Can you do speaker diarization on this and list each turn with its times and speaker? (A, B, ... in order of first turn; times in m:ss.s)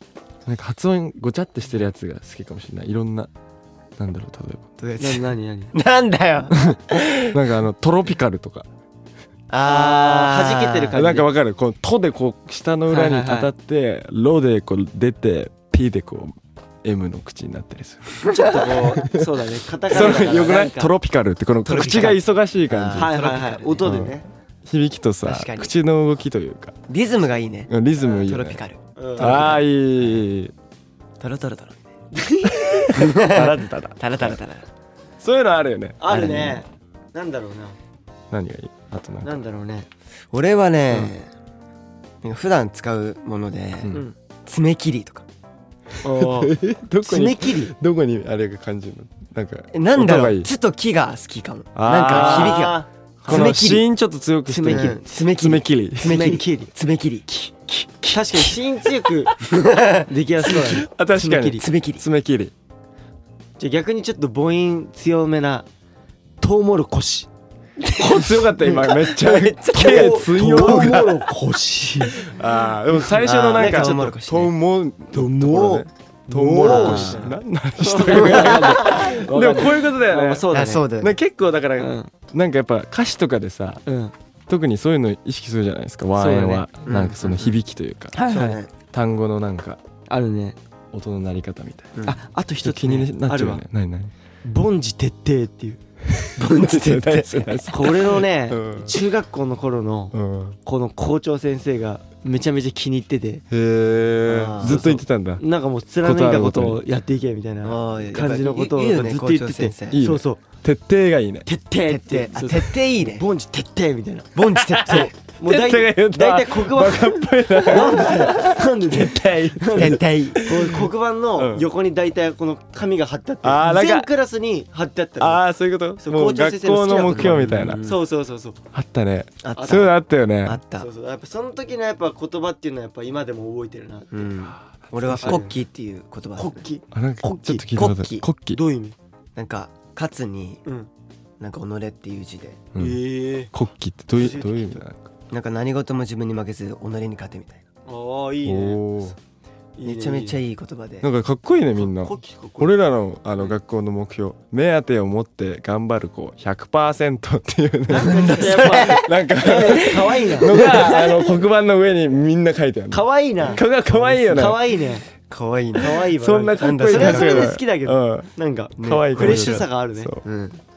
0:00.4-0:03.3 A
0:04.0-0:04.7 A
0:04.8-0:07.4 B
0:05.0-0:05.7 C
0:06.5-0:08.6 A
0:09.5-0:11.0 B
0:09.6-0:11.3 C
0:10.9-0:18.2 A
0:12.9-0:13.5 C
0:18.2-0:20.9 C
0:19.0-0:19.2 A
0:19.9-0:23.1 A
0:20.0-0:20.2 B
0:21.6-0:24.1 B
0:21.7-0:22.2 C
0:22.9-0:24.2 C
0:23.8-0:24.1 A
0:24.6-0:26.8 A
0:25.2-0:25.7 B
0:26.9-0:30.2 B
0:27.7-0:28.6 A
0:29.0-0:29.6 C
0:29.2-0:30.5 A
0:31.2-0:31.8 B
0:32.1-0:33.0 C
0:32.9-0:34.4 A
0:32.9-0:34.6 B
0:35.2-0:36.6 A
0:36.0-0:37.8 C
0:36.2-0:36.5 B
0:38.3-0:39.4 A
0:39.2-0:39.9 C
0:40.3-0:41.3 B
0:42.2-0:43.9 B
0:44.4-0:45.2 B
0:46.0-0:47.7 C
0:46.1-0:50.5 A
0:49.7-0:53.8 B
0:51.7-0:52.7 A
0:52.0-0:53.5 C
0:53.2-0:56.4 A
0:54.4-0:55.0 C
0:54.7-0:57.7 B
0:56.0-0:56.7 C
0:57.8-0:58.5 A
0:58.1-0:59.3 C
0:59.4-1:00.1 B
1:00.0-1:01.6 C
1:00.4-1:02.5 A
1:01.6-1:02.0 B
1:03.6-1:05.6 C
1:06.4-1:07.3 C
1:07.8-1:11.1 B
1:07.9-1:11.2 A
1:08.7-1:12.2 C
1:12.1-1:20.5 A
1:13.1-1:14.5 B
1:13.5-1:14.1 C
1:15.1-1:20.8 C
1:16.6-1:17.3 B
1:18.1-1:19.0 B
1:20.5-1:21.1 B
1:21.0-1:23.8 A
1:21.8-1:22.1 C
1:23.8-1:24.1 C
1:24.5-1:29.8 A
1:26.2-1:26.7 C
1:26.8-1:27.6 B
1:28.2-1:28.6 C
1:28.2-1:28.7 B
1:30.1-1:30.6 C
1:30.9-1:31.9 A
1:32.0-1:33.6 C
1:32.6-1:34.1 A
1:34.4-1:35.8 C
1:36.1-1:39.0 A
1:36.4-1:37.7 B
1:37.7-1:40.1 C
1:40.1-1:40.6 A
1:40.6-1:43.4 C
1:43.5-1:45.4 A
1:44.2-1:44.9 B
1:44.6-1:50.4 C
1:46.0-1:46.8 A
1:47.6-1:50.0 B
1:49.9-1:51.5 A
1:51.4-2:05.4 C
1:51.8-1:53.2 B
1:54.3-1:55.1 B
1:54.7-2:01.6 A
1:59.8-2:00.4 B
2:03.4-2:04.1 A
2:05.2-2:07.8 A
2:06.0-2:08.6 C
2:07.1-2:08.0 B
2:08.7-2:10.6 A
2:09.4-2:10.9 B
2:09.5-2:09.9 C
2:10.8-2:14.3 C
2:14.1-2:16.6 B
2:14.8-2:15.4 A
2:15.2-2:15.5 C
2:16.4-2:17.6 C
2:16.9-2:18.6 A
2:17.4-2:18.2 B
2:18.5-2:19.0 C
2:19.4-2:20.6 B
2:20.6-2:20.9 C
2:21.4-2:22.6 B
2:22.7-2:25.1 A
2:22.8-2:23.5 C
2:24.2-2:24.8 C
2:25.3-2:27.6 B
2:27.9-2:28.9 C
2:28.4-2:29.1 A
2:29.8-2:30.4 C
2:29.8-2:31.1 B
2:31.0-2:44.6 A
2:31.8-2:32.8 C
2:37.9-2:41.4 C
2:37.9-2:39.1 B
2:40.5-2:40.8 B
2:42.9-2:45.0 C
2:45.3-2:47.6 B
2:45.8-2:50.1 C
2:46.2-2:50.2 A
2:48.8-2:49.6 B
2:50.2-2:50.6 B